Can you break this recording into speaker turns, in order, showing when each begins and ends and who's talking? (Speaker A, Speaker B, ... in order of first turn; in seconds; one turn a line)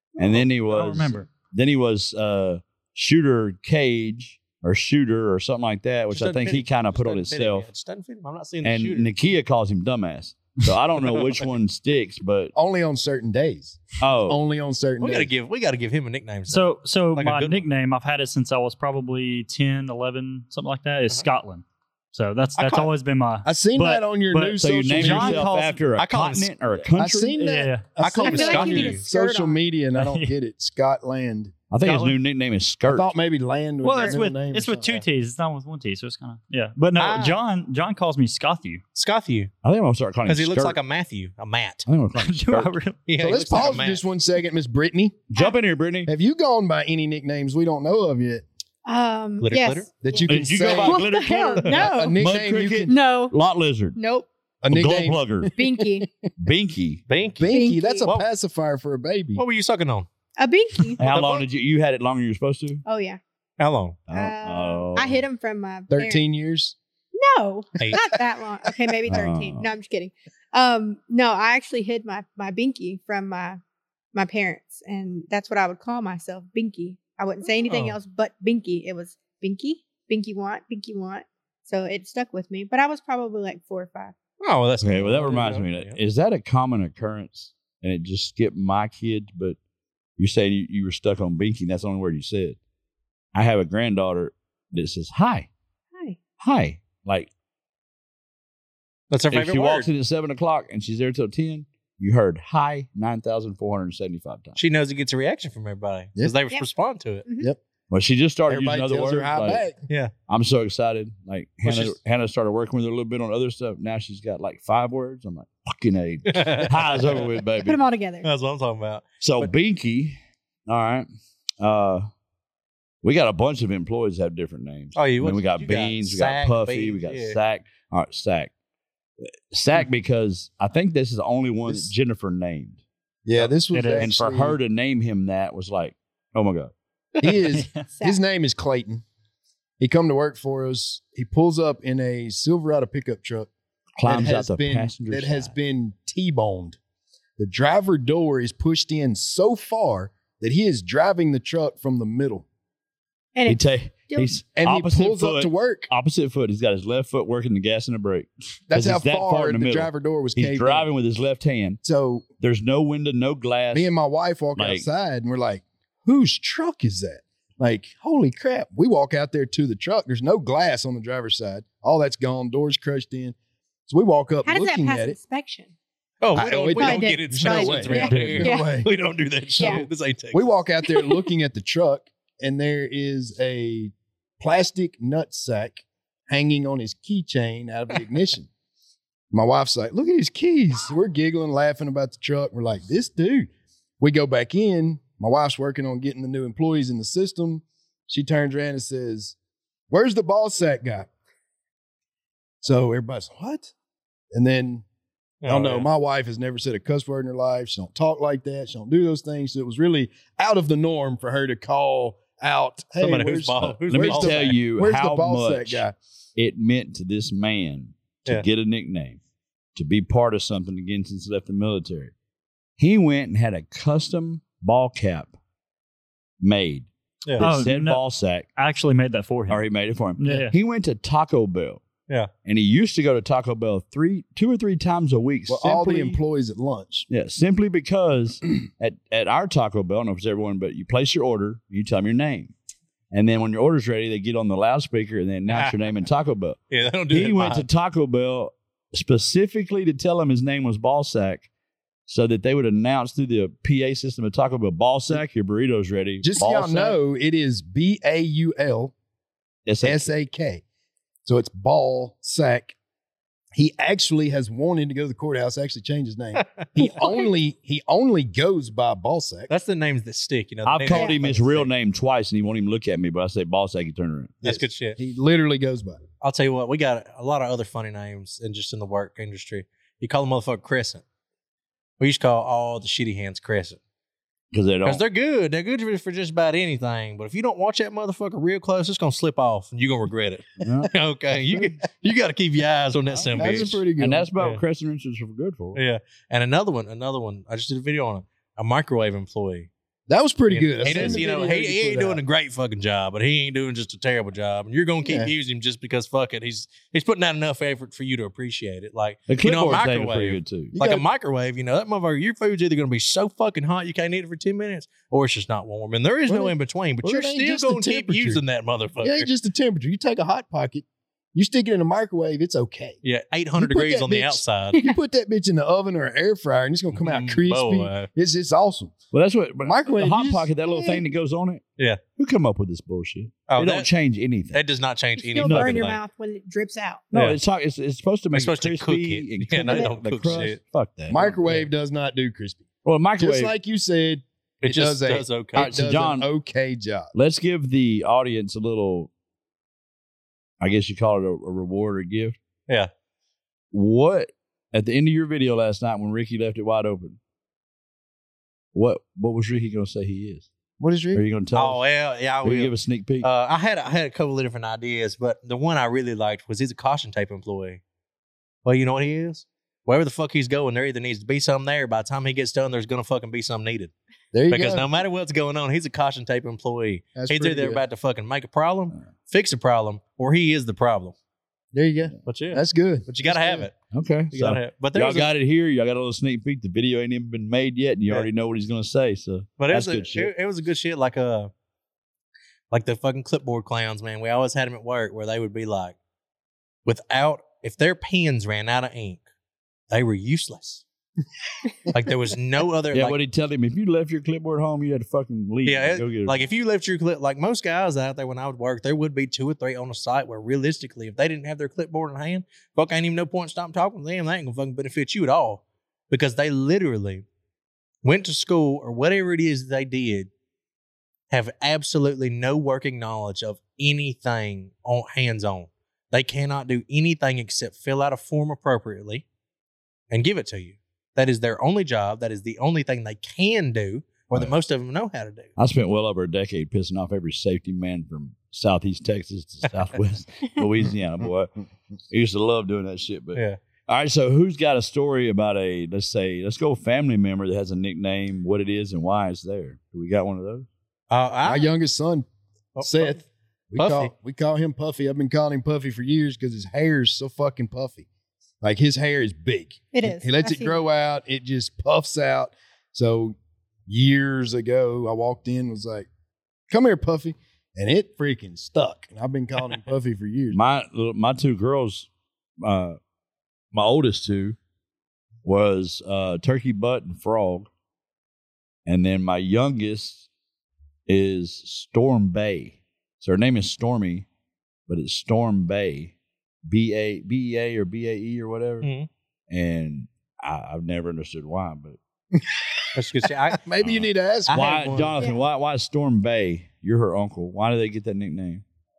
Speaker A: 0.2-7.7
Speaker B: 0.4-1.3
Speaker C: 6.1-9.1
Speaker A: 8.6-12.5
Speaker C: 11.0-11.5
Speaker D: 12.6-15.3
Speaker A: 14.0-14.4
Speaker C: 15.0-17.6
Speaker B: 16.5-25.8
Speaker C: 22.6-22.9
Speaker D: 23.4-25.5
Speaker A: 24.6-27.3
Speaker C: 26.0-26.5
Speaker D: 26.9-31.5
Speaker B: 27.4-27.9
Speaker C: 28.0-29.0
Speaker E: 28.2-29.6
Speaker B: 30.0-30.3
Speaker A: 31.7-33.1
Speaker B: 31.8-32.2
Speaker D: 32.9-35.0
Speaker B: 33.8-38.8
Speaker C: 37.0-37.4
Speaker C: 39.0-39.5
Speaker A: 39.6-40.8
Speaker C: 40.3-41.9
Speaker A: 41.9-42.7
Speaker B: 42.1-43.1
Speaker C: 43.0-44.0
Speaker D: 43.2-45.2
Speaker A: 45.3-46.1
Speaker D: 46.1-48.5
Speaker E: 48.9-52.2
Speaker C: 49.4-49.9
Speaker D: 50.0-51.1
Speaker A: 50.3-54.0
Speaker D: 51.7-52.9
Speaker E: 52.9-53.3
Speaker E: 54.0-54.3
Speaker D: 54.6-56.3
Speaker A: 54.7-55.5
Speaker E: 55.6-56.1
Speaker A: 56.4-57.0
Speaker C: 57.1-57.5
Speaker D: 57.4-59.4
Speaker E: 57.5-58.1
Speaker C: 58.0-58.3
Speaker C: 59.4-60.1
Speaker E: 60.4-61.0
Speaker A: 61.0-62.8
Speaker C: 61.0-61.5
Speaker E: 62.9-63.2
Speaker C: 63.6-64.0
Speaker A: 64.1-65.2
Speaker E: 64.1-66.2
Speaker D: 65.9-66.8
Speaker E: 67.1-73.6
Speaker A: 69.1-69.7
Speaker E: 74.1-84.2
Speaker C: 77.7-78.0
Speaker C: 84.4-86.0
Speaker A: 84.8-89.6
Speaker A: 90.2-92.6
Speaker A: 93.3-95.5
Speaker A: 96.4-97.3
Speaker C: 99.1-99.9
Speaker A: 99.3-104.6
Speaker C: 104.6-107.3
Speaker E: 107.3-107.5
Speaker A: 107.9-109.7
Speaker D: 108.5-109.8
Speaker A: 110.3-117.8
Speaker C: 111.6-112.0
Speaker C: 116.3-117.3
Speaker E: 117.6-118.3
Speaker C: 118.2-119.5
Speaker A: 119.2-121.1
Speaker A: 121.6-122.1
Speaker A: 123.0-128.5
Speaker C: 125.0-127.4
Speaker A: 129.2-132.8
Speaker D: 131.7-131.9
Speaker D: 133.2-134.6
Speaker B: 133.7-134.2
Speaker A: 134.0-136.7
Speaker D: 137.2-139.0
Speaker B: 137.5-137.8
Speaker E: 137.9-138.2
Speaker D: 139.8-143.5
Speaker A: 144.0-145.5
Speaker D: 144.0-146.8
Speaker D: 147.4-152.5
Speaker E: 153.4-154.4
Speaker A: 153.5-161.8
Speaker D: 154.5-155.9
Speaker D: 158.7-160.9
Speaker D: 161.8-162.2
Speaker A: 162.4-163.9
Speaker D: 163.7-173.3
Speaker A: 164.6-164.9
Speaker D: 173.9-175.2
Speaker E: 174.4-175.7
Speaker C: 176.2-180.5
Speaker D: 176.3-178.9
Speaker E: 176.8-178.8
Speaker A: 178.0-178.4
Speaker E: 179.6-179.8
Speaker D: 180.3-188.5
Speaker E: 180.8-181.2
Speaker D: 189.3-193.5
Speaker D: 194.0-199.3
Speaker D: 199.9-201.1
Speaker D: 202.6-203.7
Speaker D: 204.3-204.8
Speaker C: 205.4-205.9
Speaker D: 205.5-216.0
Speaker C: 213.0-214.6
Speaker A: 213.9-215.8
Speaker A: 216.4-219.2
Speaker A: 219.8-222.1
Speaker A: 222.8-225.3
Speaker A: 226.4-228.5
Speaker C: 227.2-227.6
Speaker B: 227.4-228.0
Speaker B: 228.6-229.7
Speaker A: 229.5-231.8
Speaker B: 230.2-230.6
Speaker A: 232.4-236.2
Speaker D: 235.5-237.1
Speaker A: 237.1-242.5
Speaker A: 243.1-246.6
Speaker C: 245.5-245.8
Speaker C: 246.7-247.7
Speaker A: 247.1-251.5
Speaker A: 252.1-257.0
Speaker D: 256.2-258.9
Speaker A: 259.7-260.1
Speaker D: 259.8-260.6
Speaker D: 261.2-262.8
Speaker D: 263.5-269.5
Speaker E: 266.8-267.3
Speaker C: 269.5-271.7
Speaker A: 270.7-274.4
Speaker E: 270.9-271.2
Speaker D: 274.4-276.0
Speaker C: 274.4-275.0
Speaker C: 276.2-281.0
Speaker C: 282.0-283.8
Speaker A: 284.5-285.0
Speaker C: 284.8-293.8
Speaker A: 290.6-290.9
Speaker A: 293.1-295.8
Speaker D: 293.4-294.3
Speaker C: 295.8-299.7
Speaker D: 300.1-302.2
Speaker C: 300.5-319.3
Speaker A: 300.9-301.2
Speaker D: 305.0-305.3
Speaker A: 309.3-310.7
Speaker D: 310.7-311.1
Speaker D: 316.3-318.4
Speaker D: 319.0-323.0
Speaker C: 323.0-324.8
Speaker D: 323.6-329.0
Speaker C: 326.9-328.1
Speaker A: 329.1-334.6
Speaker D: 329.6-331.0
Speaker C: 333.5-333.9
Speaker C: 334.5-336.0
Speaker E: 335.2-337.0
Speaker A: 335.4-335.9
Speaker A: 337.1-341.6
Speaker C: 337.1-337.4
Speaker C: 338.3-340.6
Speaker E: 339.7-339.9
Speaker D: 341.1-342.7
Speaker C: 341.1-341.7
Speaker A: 342.9-343.5
Speaker D: 343.2-347.1
Speaker C: 344.6-345.7
Speaker A: 345.6-346.3
Speaker A: 347.1-349.1
Speaker A: 350.6-352.4
Speaker A: 353.7-357.2
Speaker A: 358.7-360.5
Speaker D: 360.8-361.2
Speaker A: 361.1-361.8
Speaker C: 361.5-367.8
Speaker A: 362.4-363.3
Speaker C: 368.6-373.9
Speaker D: 374.3-374.9
Speaker C: 374.5-381.1
Speaker D: 377.1-377.8
Speaker D: 381.7-383.7
Speaker C: 382.3-383.8
Speaker A: 383.9-390.3
Speaker C: 384.3-385.3
Speaker C: 389.6-391.5
Speaker C: 392.7-396.0
Speaker C: 396.9-399.2
Speaker C: 399.9-400.8
Speaker C: 401.9-403.2
Speaker A: 402.9-406.4
Speaker C: 405.6-417.2
Speaker C: 418.0-420.3
Speaker C: 421.3-429.2
Speaker C: 430.1-435.5
Speaker A: 435.6-441.5
Speaker A: 442.1-450.7
Speaker C: 451.1-451.7
Speaker D: 451.4-452.3
Speaker C: 452.8-453.2
Speaker D: 452.8-458.1
Speaker C: 453.8-454.1
Speaker D: 458.6-463.4
Speaker E: 459.9-460.8
Speaker D: 463.9-466.1
Speaker D: 466.7-470.6
Speaker A: 470.5-472.1
Speaker A: 472.6-473.0
Speaker A: 473.7-474.6
Speaker A: 475.4-477.7
Speaker A: 478.9-480.3
Speaker A: 481.1-484.3
Speaker A: 484.9-486.1
Speaker A: 486.7-488.9
Speaker C: 488.8-489.1
Speaker A: 489.5-492.0
Speaker D: 492.3-494.8
Speaker C: 492.9-493.6
Speaker A: 493.8-498.6
Speaker C: 494.5-495.2